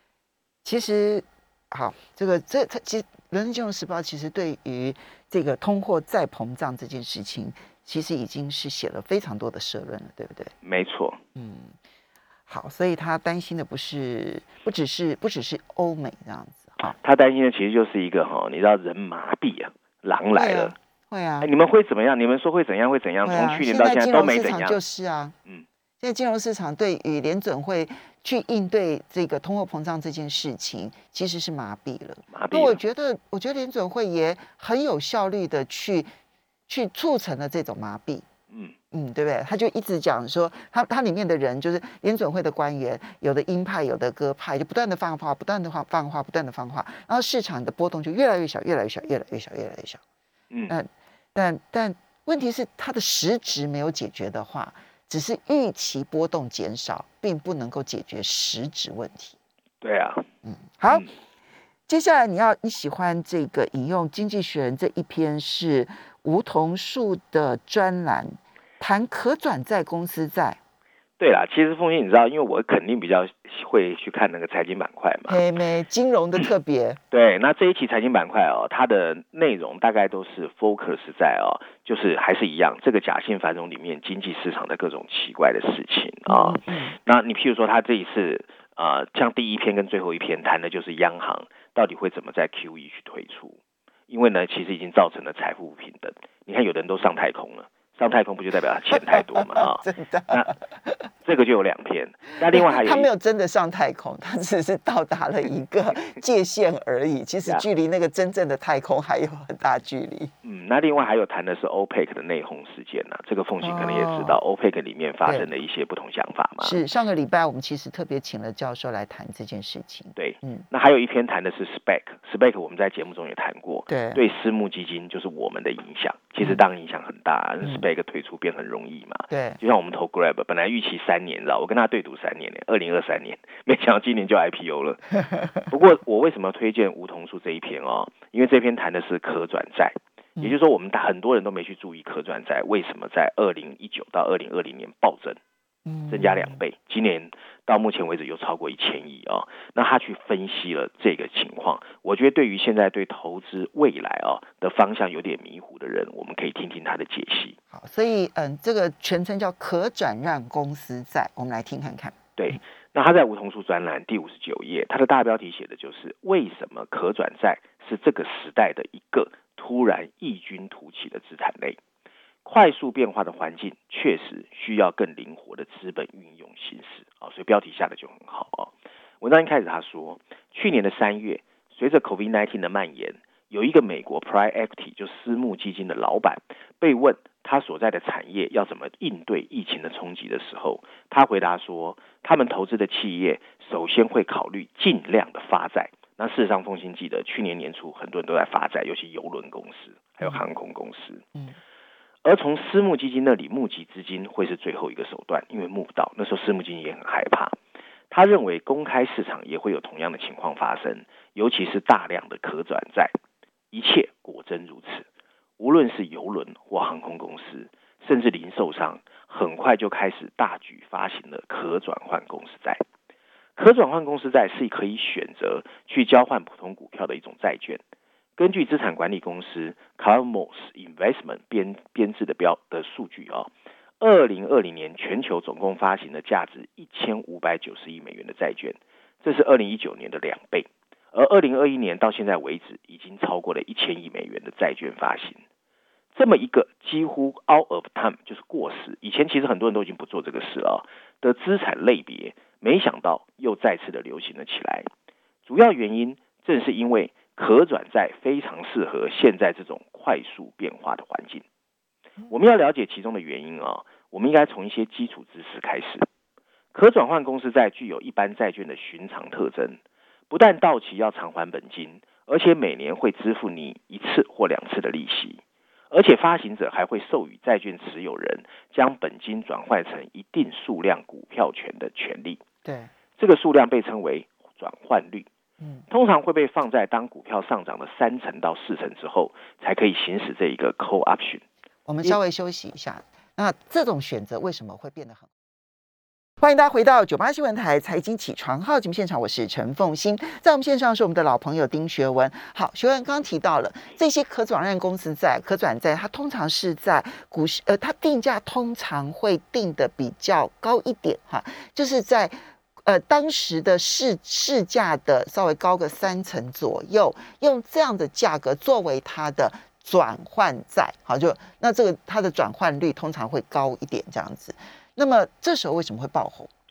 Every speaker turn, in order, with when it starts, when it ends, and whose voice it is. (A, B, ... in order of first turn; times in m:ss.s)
0:00.6-0:10.5 A
0:10.6-0:11.2 B
0:11.4-0:11.8 A
0:12.5-0:16.9 A
0:16.8-0:20.7 B
0:20.3-0:21.5 A
0:21.4-0:24.8 B
0:23.2-0:25.3 A
0:26.0-0:36.1 A
0:32.3-0:32.8 B
0:36.7-0:38.2 A
0:38.5-0:38.7 B
0:38.9-0:50.0 A
0:50.5-0:50.8 B
0:50.7-0:59.4 A
0:59.8-1:00.3 B
1:00.4-1:01.1 A
1:01.9-1:10.6 A
1:11.2-1:15.4 B
1:15.3-1:17.0 A
1:17.1-1:40.5 B
1:26.3-1:27.0 A
1:39.1-1:41.1 A
1:41.2-1:43.1 B
1:42.5-1:50.3 A
1:50.4-1:56.8 B
1:53.6-1:54.4 A
1:56.6-2:00.6 A
2:00.2-2:25.4 B
2:03.9-2:04.2 A
2:09.3-2:09.6 A
2:25.8-2:26.6 A
2:26.1-2:37.6 B
2:37.7-2:42.2 A
2:42.4-2:51.8 B
2:52.4-3:21.2 B
3:22.2-3:27.6 B
3:28.1-3:33.1 B
3:33.7-3:35.1 B
3:35.6-3:42.8 B
3:43.6-3:47.8 B
3:48.4-4:05.4 B
4:06.1-4:14.9 B
4:15.4-4:21.4 B
4:22.3-4:26.0 B
4:26.7-4:42.4 B
4:42.6-4:42.9 A
4:43.2-4:45.3 B
4:45.6-4:45.8 A
4:45.9-4:51.4 B
4:51.8-4:55.3 A
4:56.4-5:26.5 A